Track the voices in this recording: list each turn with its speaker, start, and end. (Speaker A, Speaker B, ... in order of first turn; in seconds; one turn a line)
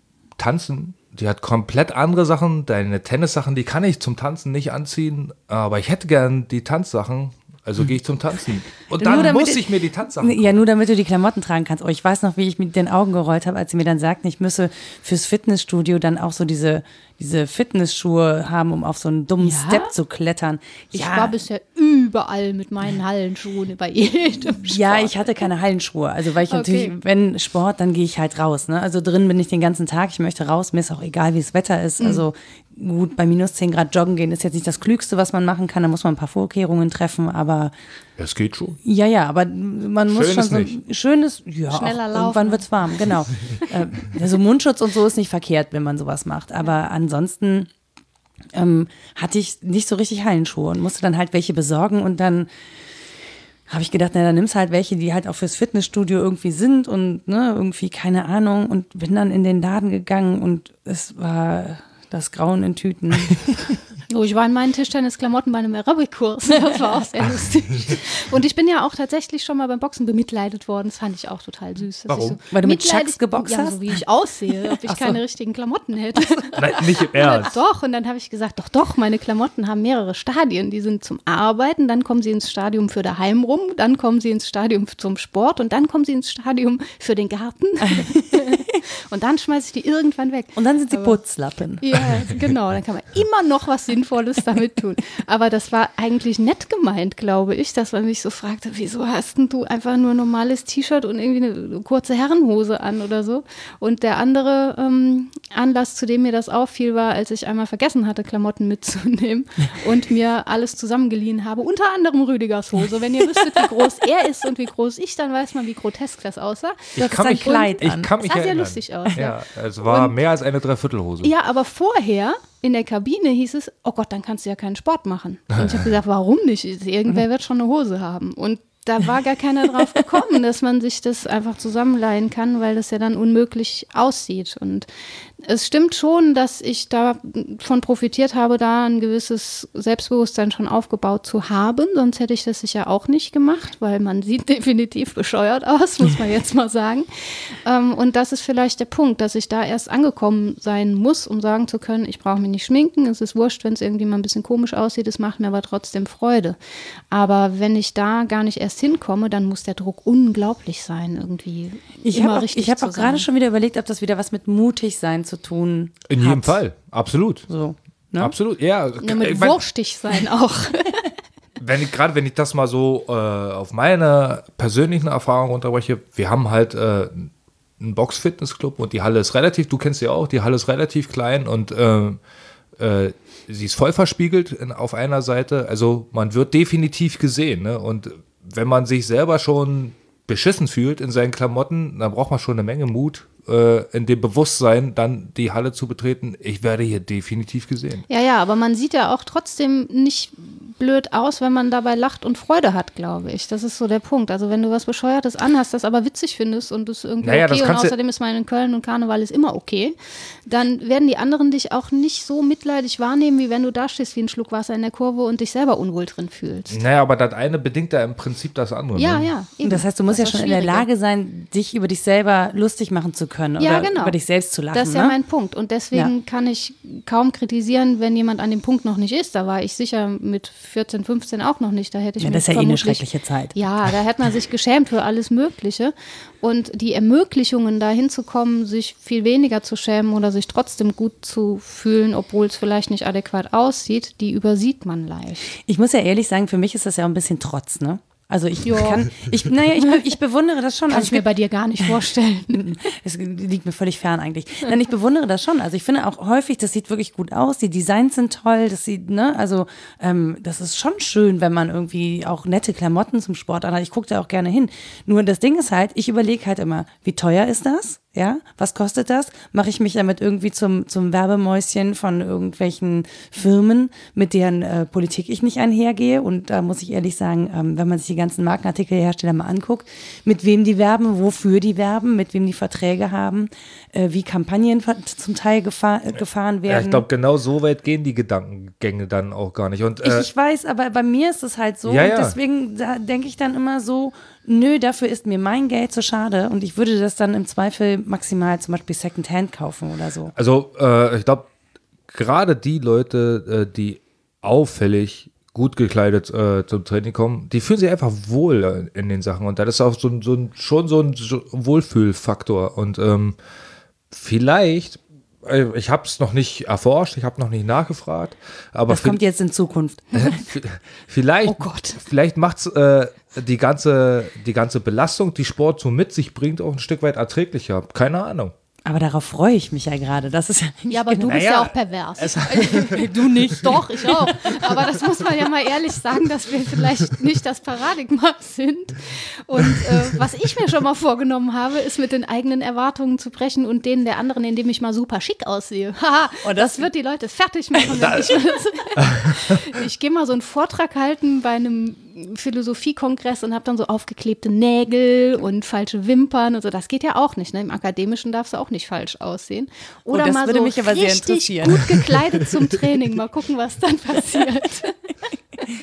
Speaker A: 0.4-10.5
Speaker B: 9.0-21.3
Speaker C: 19.4-19.9
Speaker C: 20.9-25.3
Speaker B: 24.6-37.7
Speaker C: 26.5-26.9
Speaker C: 32.0-32.2
Speaker A: 38.2-38.8
Speaker B: 38.8-47.7
Speaker A: 40.1-40.8
Speaker C: 41.7-42.7
Speaker B: 48.5-52.5
Speaker B: 53.7-63.8
Speaker C: 64.1-91.2
Speaker A: 72.1-72.4
Speaker B: 72.5-73.8
Speaker B: 74.8-75.2
Speaker A: 76.6-77.6
Speaker B: 87.8-88.8
Speaker B: 90.6-92.2
Speaker C: 91.8-117.0
Speaker A: 117.0-121.3
Speaker B: 117.0-118.1
Speaker C: 118.2-120.2
Speaker C: 121.2-134.9
Speaker A: 125.5-125.9
Speaker C: 135.4-156.6
Speaker C: 157.1-163.3
Speaker B: 162.0-166.6
Speaker A: 166.1-167.4
Speaker B: 167.5-168.3
Speaker A: 168.2-169.6
Speaker C: 169.0-171.1
Speaker A: 171.6-182.2
Speaker A: 182.8-198.1
Speaker C: 198.1-209.9
Speaker A: 207.2-207.9
Speaker C: 210.5-216.8
Speaker A: 216.7-219.3
Speaker C: 219.0-220.8
Speaker B: 219.6-225.1
Speaker C: 223.6-224.2
Speaker C: 224.7-245.6
Speaker B: 232.2-233.6
Speaker B: 245.7-251.3
Speaker C: 248.6-249.1
Speaker C: 250.9-252.8
Speaker B: 252.5-287.1
Speaker A: 286.7-290.3
Speaker B: 290.0-300.3
Speaker A: 291.9-292.4
Speaker A: 300.4-301.5
Speaker A: 302.1-313.4
Speaker A: 314.1-319.2
Speaker B: 318.9-320.4
Speaker A: 320.2-328.5
Speaker C: 321.5-322.0
Speaker B: 328.9-331.4
Speaker C: 330.9-365.0
Speaker A: 331.3-333.6
Speaker B: 332.6-334.8
Speaker B: 346.4-346.8
Speaker A: 348.0-348.3
Speaker B: 360.1-361.9